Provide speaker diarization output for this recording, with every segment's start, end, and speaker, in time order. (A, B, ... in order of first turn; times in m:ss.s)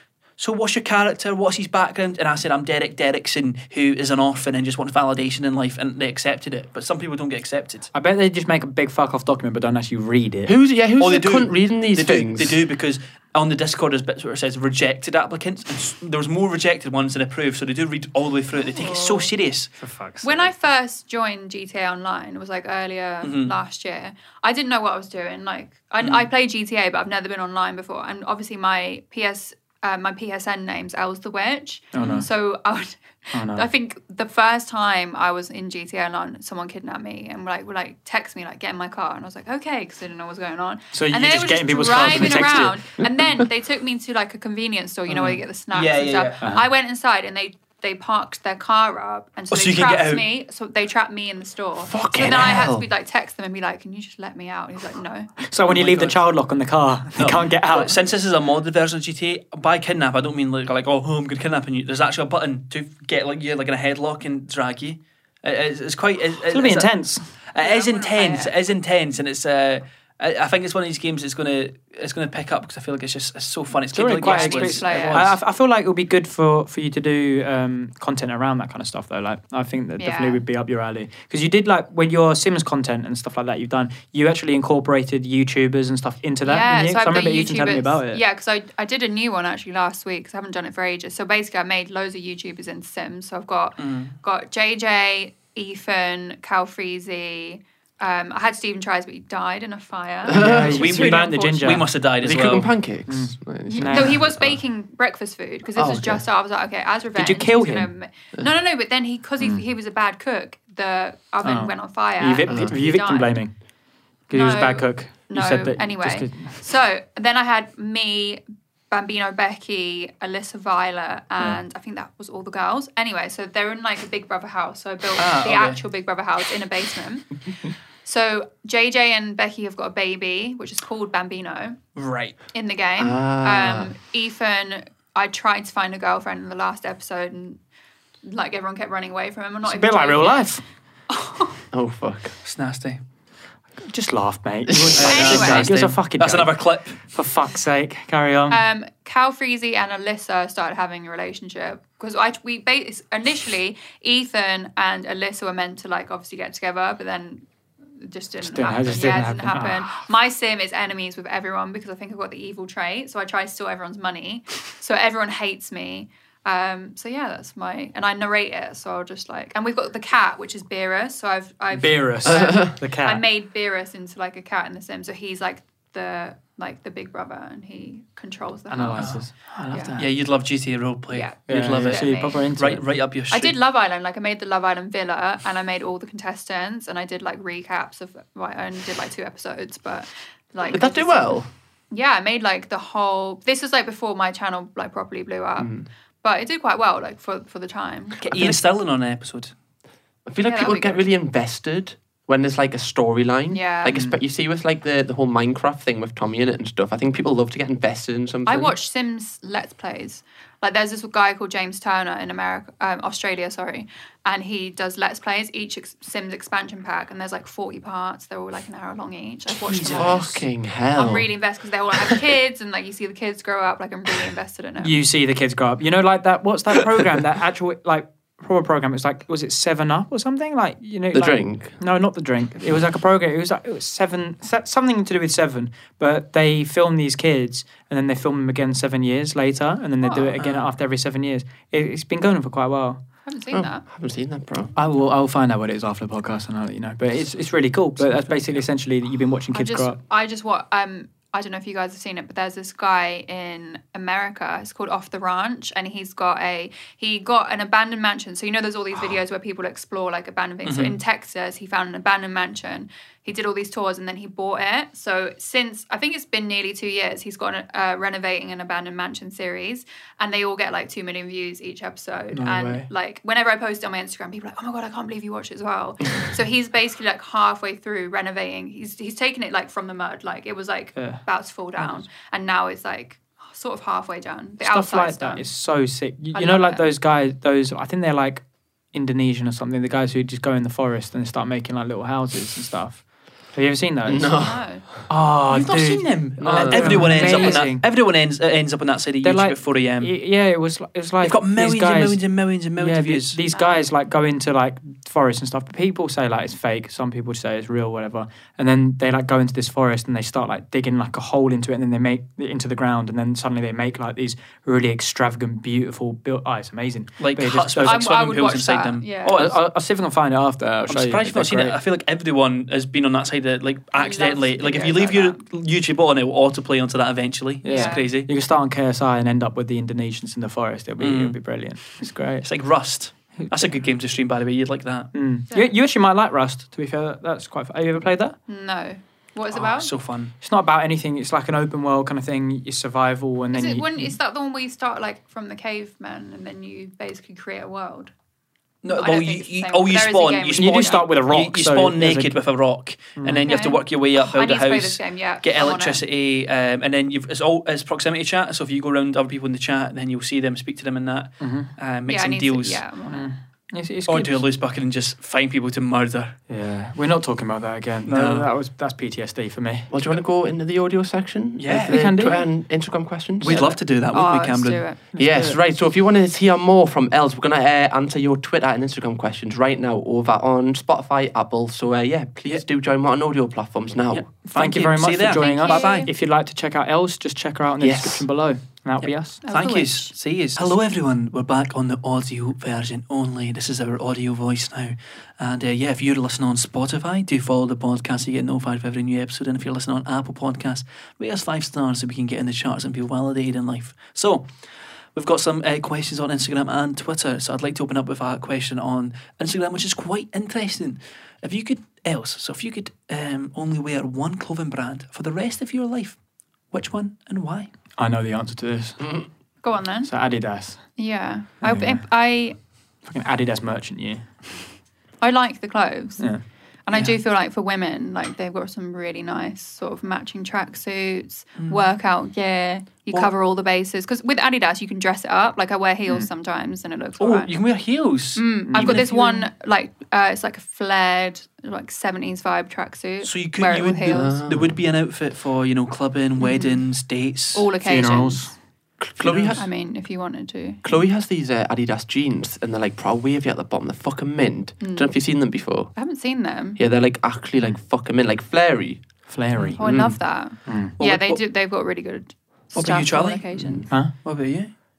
0:00.4-0:07.9 A
0:07.9-0:10.5 B
0:10.4-0:12.6 C
0:11.0-0:19.7 A
0:18.7-0:19.3 D
0:19.8-0:20.5 B
0:20.2-0:55.4 D
0:23.2-0:23.5 A
0:26.0-0:26.2 A
0:31.9-0:32.3 B
0:32.0-0:32.2 A
0:33.3-0:33.6 B
0:40.9-0:42.8 B
0:45.1-0:46.4 A
0:49.5-0:50.2 A
0:51.9-0:52.8 C
0:55.4-0:57.9 B
0:55.7-0:56.2 A
0:57.2-1:15.3 A
1:06.5-1:07.3 B
1:07.6-1:08.5 D
1:13.9-1:28.2 B
1:14.2-1:15.3 D
1:20.0-1:20.4 D
1:26.4-1:41.8 D
1:33.8-1:34.1 A
1:40.2-1:40.8 C
1:40.3-1:41.9 B
1:40.6-1:42.7 A
1:42.2-1:44.6 C
1:43.1-1:44.2 B
1:43.7-1:53.4 D
1:45.7-1:46.2 C
1:47.2-1:47.9 B
1:51.4-1:53.6 B
1:52.4-1:52.8 C
1:54.3-1:56.5 B
1:54.3-2:07.4 D
2:05.2-2:05.8 A
2:08.0-2:11.8 D
2:12.0-2:12.4 A
2:12.5-2:17.6 D
2:13.0-2:13.9 C
2:18.2-2:20.6 D
2:19.6-2:20.6 B
2:21.1-2:21.6 D
2:21.7-2:22.3 C
2:22.4-2:23.0 A
2:23.8-2:28.6 B
2:24.7-2:25.9 C
2:25.0-2:27.0 A
2:25.0-2:25.7 D
2:28.5-2:37.4 D
2:38.0-3:00.0 D
2:38.4-2:40.0 B
2:51.7-2:53.2 B
2:52.2-2:52.8 C
2:58.7-3:00.1 B
2:59.0-2:59.2 A
3:00.0-3:03.6 A
3:01.1-3:02.5 D
3:01.5-3:02.8 B
3:03.3-3:18.2 D
3:10.6-3:11.5 C
3:15.6-3:15.8 C
3:18.2-3:19.5 A
3:18.3-3:18.6 C
3:20.2-3:28.7 C
3:20.4-3:21.0 D
3:23.5-3:24.0 D
3:23.9-3:24.2 B
3:28.4-3:44.9 D
3:39.6-3:40.2 A
3:39.9-3:41.3 C
3:44.8-4:03.0 B
3:51.1-3:51.8 C
4:00.0-4:00.3 D
4:00.4-4:00.7 A
4:03.2-4:03.8 D
4:03.5-4:04.7 C
4:04.8-4:10.0 B
4:09.5-4:45.5 D
4:20.6-4:20.9 A
4:32.3-4:32.9 B
4:41.0-4:41.2 B
4:41.8-4:42.0 B
4:44.6-4:54.4 B
4:46.3-4:46.8 D
4:54.0-4:54.7 C
4:54.2-4:54.8 D
4:55.1-4:57.8 B
4:55.5-5:00.1 A
4:56.4-4:57.6 C
4:57.2-4:57.5 D
4:59.2-5:18.1 B
5:01.2-5:03.4 A
5:03.5-5:03.8 D
5:17.2-5:19.6 A
5:17.8-5:19.4 D
5:19.3-5:21.8 B
5:20.9-5:28.3 A
5:24.0-5:25.4 D
5:27.6-5:32.5 B
5:27.7-5:28.0 D
5:31.0-5:31.4 A
5:32.4-5:35.1 A
5:33.4-5:33.8 B
5:35.1-5:38.4 B
5:38.5-5:39.9 D
5:39.5-5:40.3 A
5:40.4-5:44.1 B
5:43.5-5:48.1 D
5:48.8-6:02.8 A
5:48.8-5:51.1 D
5:50.6-5:52.4 B
5:53.2-5:53.5 B
5:53.4-5:56.0 D
6:01.4-6:01.7 B
6:02.1-6:03.3 D
6:03.1-6:04.4 B
6:04.1-6:06.4 A
6:06.5-6:09.9 B
6:08.0-6:08.5 A
6:09.9-6:13.7 C
6:11.6-6:12.4 A
6:11.7-6:12.4 B
6:13.4-6:14.8 A
6:13.5-6:13.8 B
6:14.1-6:15.0 D
6:15.1-6:15.6 B
6:15.2-6:24.3 C
6:24.1-6:26.1 A
6:24.4-6:29.4 B
6:25.2-6:26.1 D
6:27.8-6:28.3 C
6:29.0-6:44.5 A
6:29.4-6:30.2 D
6:45.1-6:56.2 A
6:56.7-6:57.7 A
6:58.0-6:59.1 B
6:59.0-6:59.2 C
6:59.6-7:00.1 D
7:00.0-7:00.9 B
7:00.9-7:02.6 D
7:01.6-7:02.0 B
7:03.0-7:04.3 B
7:05.2-7:17.5 D
7:11.6-7:11.9 A
7:17.2-7:19.3 A
7:18.4-7:24.3 D
7:18.7-7:19.4 B
7:23.2-7:27.7 A
7:24.1-7:24.8 C
7:26.4-7:27.0 D
7:27.5-7:28.5 D
7:27.8-7:28.5 B
7:29.0-7:29.6 C
7:29.2-7:29.6 A
7:29.5-7:30.8 D
7:30.8-7:35.9 C
7:34.8-7:36.8 D
7:36.8-7:39.0 C
7:39.3-7:40.9 B
7:39.8-7:43.9 D
7:39.8-7:40.2 C
7:41.0-7:41.4 A
7:42.7-7:44.7 A
7:43.6-7:43.8 C